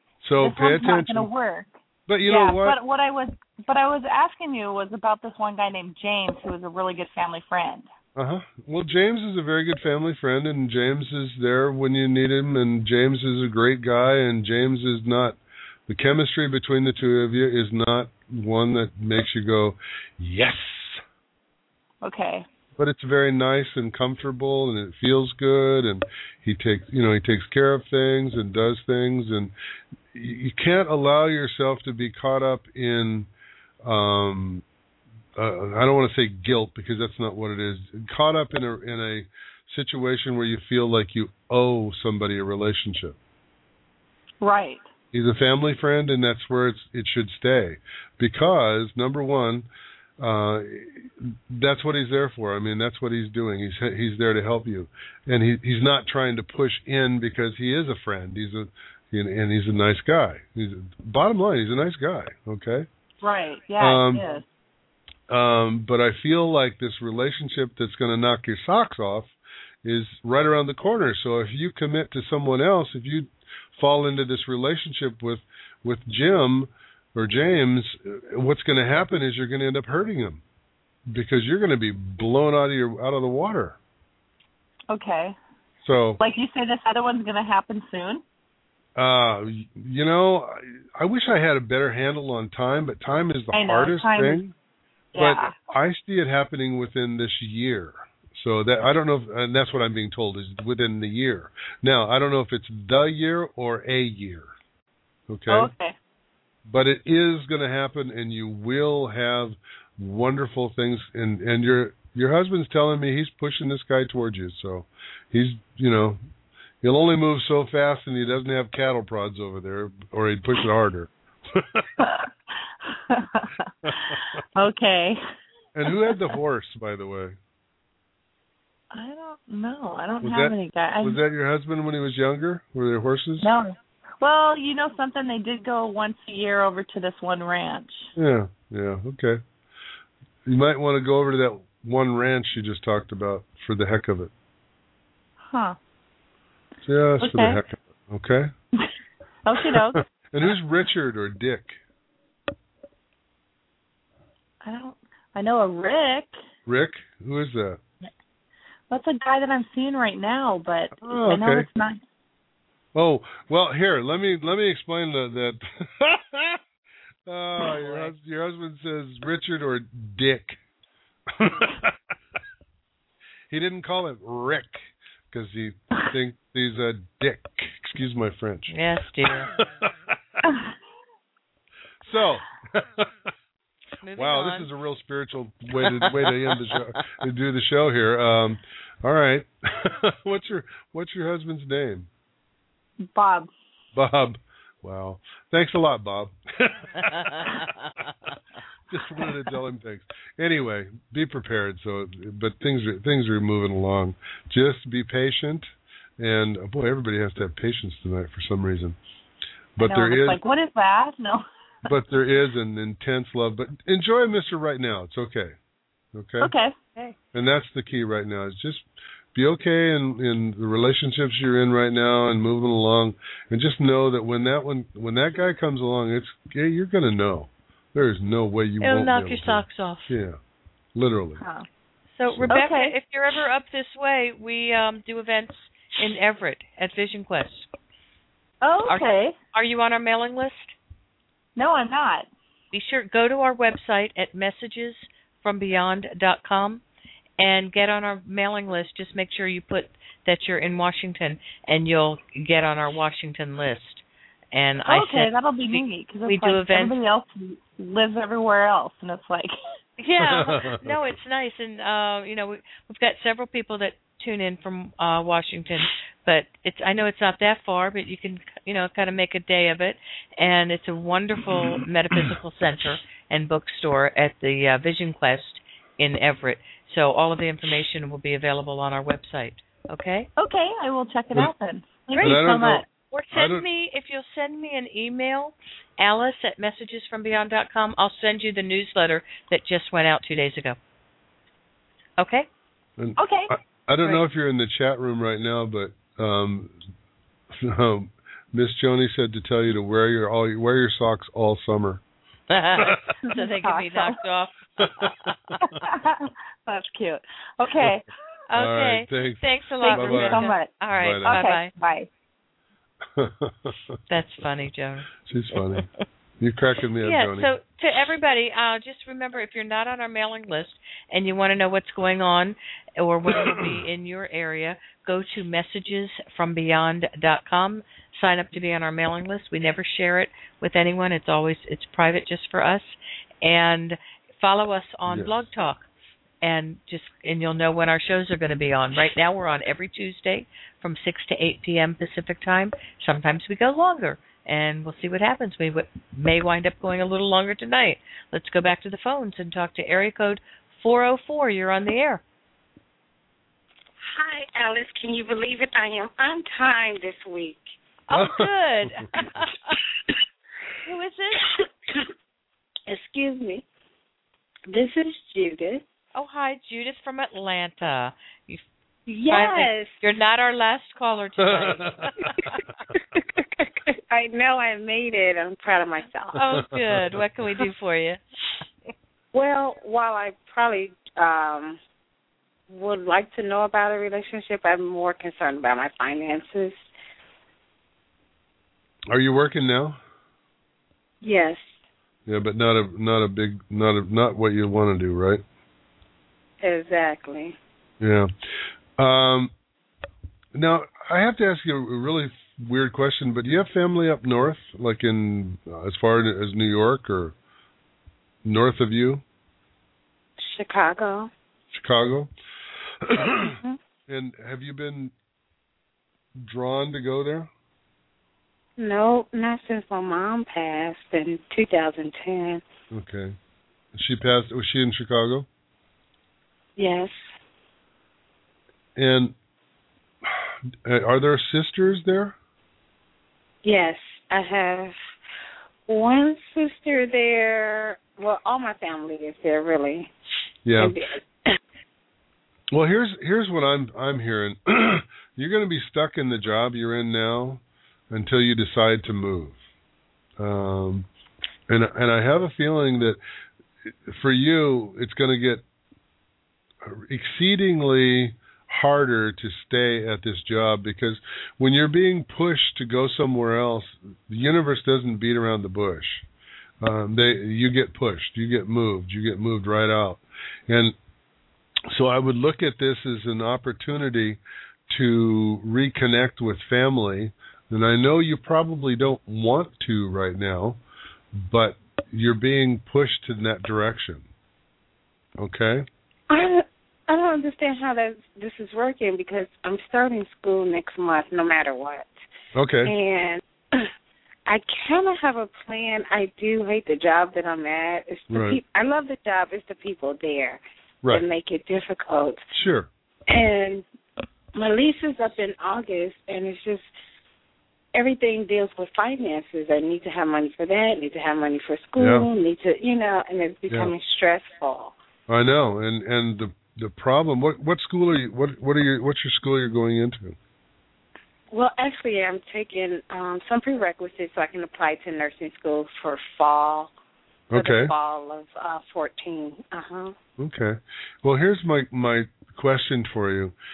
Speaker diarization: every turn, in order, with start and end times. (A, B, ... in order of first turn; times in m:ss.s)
0:00.2-0:01.3 A
0:00.4-0:07.9 B
0:02.1-0:02.8 A
0:08.2-0:21.0 A
0:22.0-0:22.4 B
0:22.8-0:29.5 A
0:30.1-0:33.3 A
0:33.8-0:34.6 A
0:35.4-0:43.2 A
0:44.4-0:44.8 B
0:45.1-0:49.7 A
0:50.2-1:02.9 A
1:03.2-1:04.4 B
1:03.8-1:04.2 A
1:05.3-1:20.4 A
1:21.1-1:23.8 A
1:24.9-1:25.4 B
1:25.8-1:26.2 A
1:26.2-1:28.2 B
1:29.0-1:34.5 A
1:33.5-1:34.4 B
1:35.1-1:35.5 B
1:35.2-1:44.5 A
1:45.3-1:45.7 A
1:45.5-1:45.9 B
1:46.6-1:56.2 A
1:56.8-2:01.9 A
2:02.0-2:02.2 B
2:02.9-2:03.7 B
2:03.8-2:04.4 A
2:04.6-2:05.2 B
2:05.7-2:07.4 A
2:05.9-2:06.4 B
2:08.9-2:11.2 B
2:10.2-2:13.5 A
2:13.4-2:18.1 B
2:18.2-2:19.4 A
2:20.4-2:24.3 A
2:25.5-2:25.8 B
2:26.8-2:28.5 A
2:27.2-2:27.6 B
2:29.4-2:30.0 B
2:30.2-2:31.8 A
2:34.6-2:36.4 B
2:36.6-2:37.8 A
2:38.9-2:42.0 B
2:41.0-2:41.6 A
2:42.9-2:46.6 A
2:47.3-2:50.6 A
2:47.8-2:48.1 B
2:51.3-2:51.9 A
2:53.5-2:58.7 A
2:58.7-2:59.5 C
2:59.2-3:00.2 A
3:02.0-3:03.3 A
3:04.0-3:04.7 C
3:04.1-3:12.1 A
3:05.8-3:06.3 C
3:13.1-3:13.5 B
3:13.9-3:16.8 A
3:17.0-3:17.7 C
3:18.9-3:25.7 A
3:26.2-3:29.0 A
3:29.8-3:30.4 A
3:29.8-3:31.4 B
3:31.8-3:35.6 A
3:36.1-3:36.5 A
3:36.4-3:36.8 B
3:37.3-3:50.4 A
3:48.8-3:50.1 C
3:50.9-3:51.4 A
3:51.4-3:51.6 B
3:52.1-3:57.7 C
3:52.5-3:53.0 B
3:58.6-3:59.4 B
3:58.9-4:00.8 C
4:01.6-4:02.3 B
4:02.7-4:06.8 C
4:07.4-4:17.0 C
4:14.8-4:19.5 B
4:20.0-4:40.3 C
4:20.2-4:21.1 A
4:40.4-4:42.8 B
4:42.1-4:42.4 C
4:42.2-4:42.8 A
4:43.1-4:50.8 C
4:43.3-4:43.6 A
4:52.2-4:52.5 C
4:53.2-4:53.5 B
4:53.8-4:56.8 A
4:57.5-5:02.0 A
5:02.5-5:04.6 C
5:03.3-5:04.2 B
5:04.8-5:05.3 A
5:05.8-5:08.1 B
5:08.5-5:11.7 C
5:08.6-5:11.4 A
5:09.8-5:12.1 B
5:13.1-5:13.9 A
5:14.1-5:15.1 C
5:15.3-5:15.8 A
5:16.4-5:17.5 A
5:17.0-5:35.9 C
5:23.3-5:23.8 A
5:35.1-5:35.4 A
5:36.4-5:52.2 C
5:54.1-5:57.7 D
5:58.1-5:59.8 C
5:58.1-5:59.1 A
6:00.8-6:01.5 C
6:01.6-6:02.0 D
6:02.9-6:03.6 D
6:04.7-6:05.8 D
6:06.1-6:08.6 C
6:09.1-6:09.9 D
6:09.3-6:12.4 C
6:11.4-6:12.1 A
6:12.9-6:16.6 D
6:16.3-6:18.2 C
6:16.5-6:17.0 A
6:19.3-6:21.8 D
6:22.7-6:26.9 D
6:29.1-6:30.0 A
6:31.2-6:31.8 D
6:32.3-6:35.4 A
6:36.6-6:37.6 D
6:38.0-6:38.3 A
6:39.0-6:39.5 A
6:40.5-6:47.4 A
6:48.4-6:49.2 A
6:50.4-6:51.3 D
6:51.7-6:52.3 A
6:53.0-6:55.1 A
6:53.4-6:53.8 D
6:56.4-6:57.5 A
6:58.8-7:02.6 D
7:02.9-7:03.4 A
7:03.9-7:05.5 A
7:06.8-7:07.1 D
7:09.0-7:09.4 A
7:10.2-7:12.4 A
7:13.6-7:14.9 D
7:15.9-7:20.1 D
7:20.6-7:21.0 A
7:20.8-7:21.5 D
7:22.7-7:29.6 A
7:30.4-7:31.1 A
7:31.7-7:33.2 A
7:33.8-7:35.6 A
7:36.8-7:46.3 A
7:46.8-7:51.0 A
7:51.9-8:00.8 A
8:01.3-8:04.3 A
8:05.4-8:05.9 A
8:06.3-8:12.1 D
8:12.6-8:12.9 A
8:12.8-8:13.9 D
8:14.5-8:22.4 D
8:18.3-8:18.6 A
8:22.5-8:22.9 A
8:23.3-8:23.8 D
8:24.6-8:26.9 D
8:27.9-8:34.9 D
8:32.0-8:32.3 A
8:35.3-8:40.4 A
8:41.5-8:46.9 D
8:47.5-8:47.9 A
8:47.5-8:50.2 D
8:50.4-8:53.6 A